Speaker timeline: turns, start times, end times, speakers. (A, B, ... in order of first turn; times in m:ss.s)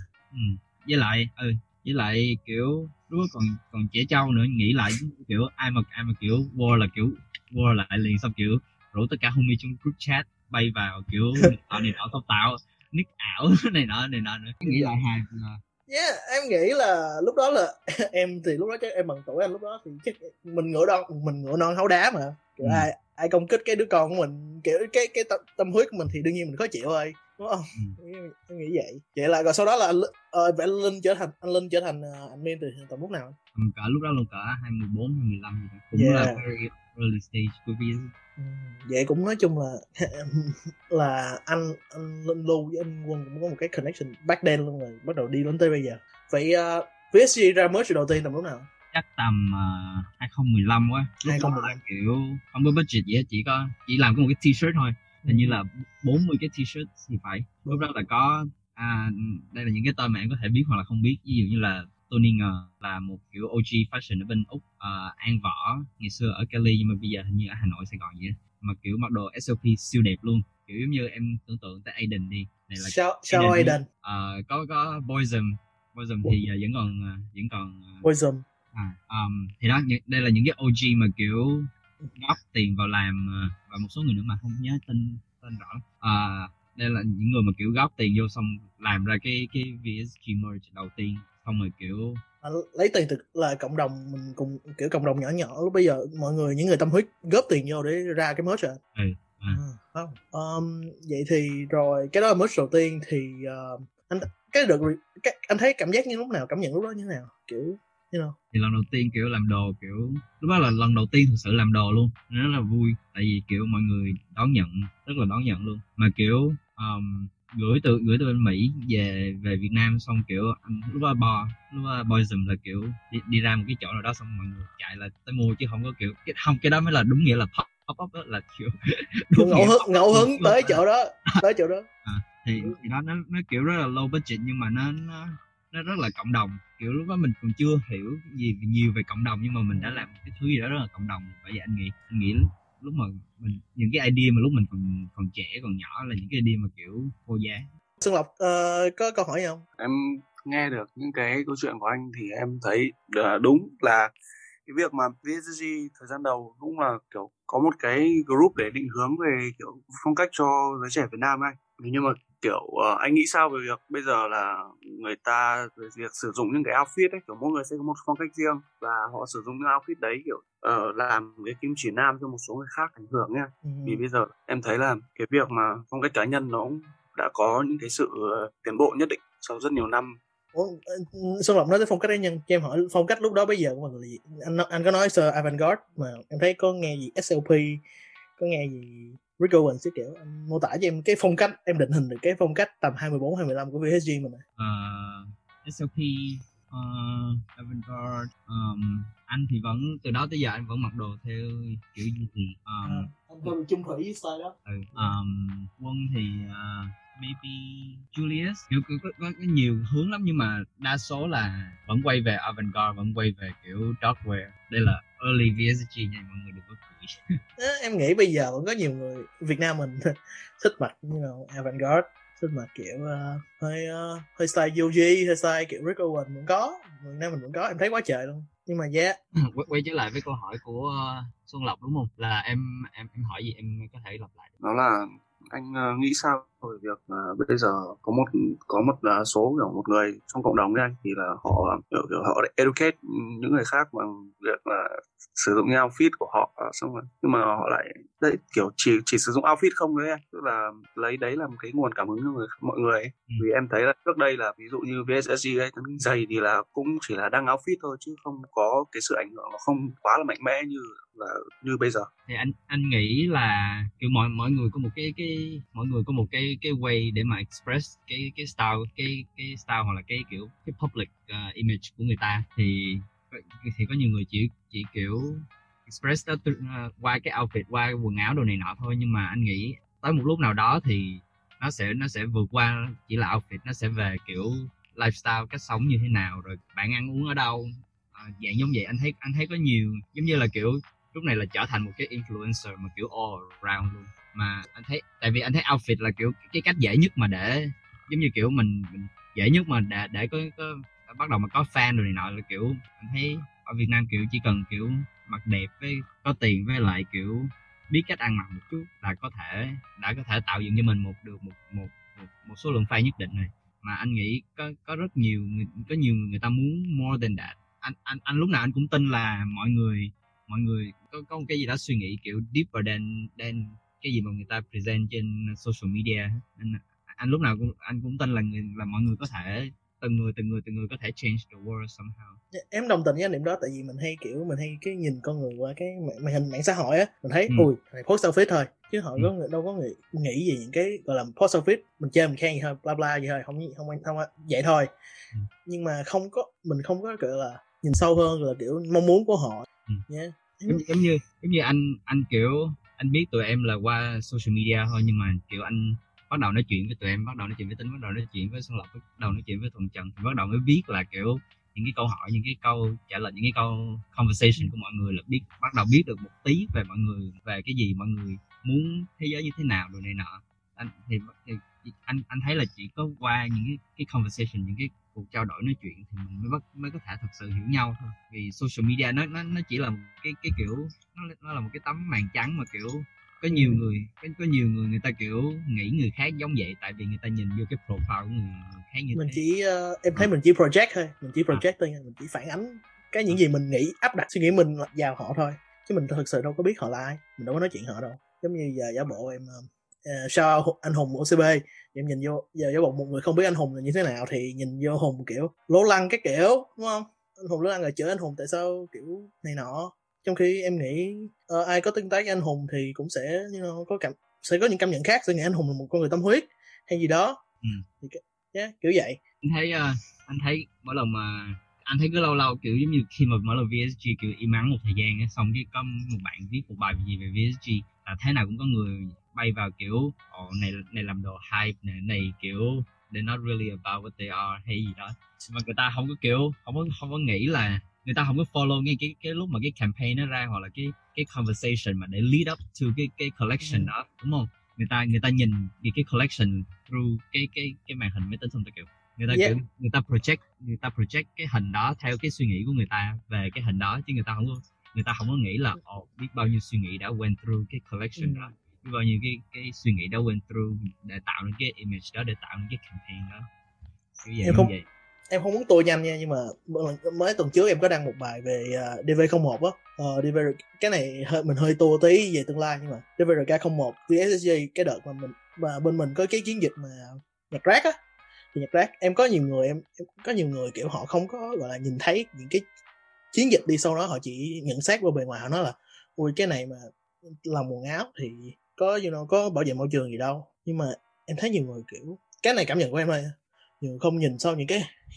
0:00.3-0:15.6 A
0:11.4-0:11.8 B
0:14.6-0:14.9 B
0:15.9-0:33.4 B
0:22.6-0:22.9 A
0:33.5-0:38.1 A
0:36.0-0:36.4 B
0:38.4-0:48.7 B
0:48.9-1:18.0 A
0:51.2-0:51.8 B
0:55.2-0:55.6 B
1:12.8-1:13.8 B
1:18.0-1:18.4 B
1:18.7-1:32.2 A
1:32.4-1:38.8 B
1:39.0-1:39.6 A
1:39.5-1:48.4 B
1:48.5-2:08.7 A
2:09.3-2:11.4 A
2:09.3-2:11.9 B
2:12.0-2:27.6 A
2:19.7-2:20.1 B
2:28.0-2:29.6 B
2:29.8-2:34.1 C
2:34.6-3:00.2 C
2:53.6-2:54.0 B
3:00.5-3:07.8 B
3:08.4-3:14.4 B
3:14.6-3:23.5 A
3:22.8-3:25.1 B
3:24.6-3:37.2 A
3:37.6-3:49.2 B
3:49.3-3:54.5 A
3:54.6-4:22.1 C
4:22.3-5:32.4 A
5:32.5-5:44.9 B
5:45.6-5:50.8 B
5:50.7-6:29.4 A
6:23.5-6:23.9 B
6:29.2-6:57.4 B
6:58.0-6:59.2 B
6:59.4-7:43.4 A
7:23.6-7:23.9 B
7:29.3-7:29.5 B
7:38.2-7:38.5 B
7:44.2-7:44.8 A
7:44.4-7:44.7 B
7:45.3-7:57.9 B
7:58.5-8:02.6 B
8:03.3-8:06.9 B
8:07.4-8:14.8 B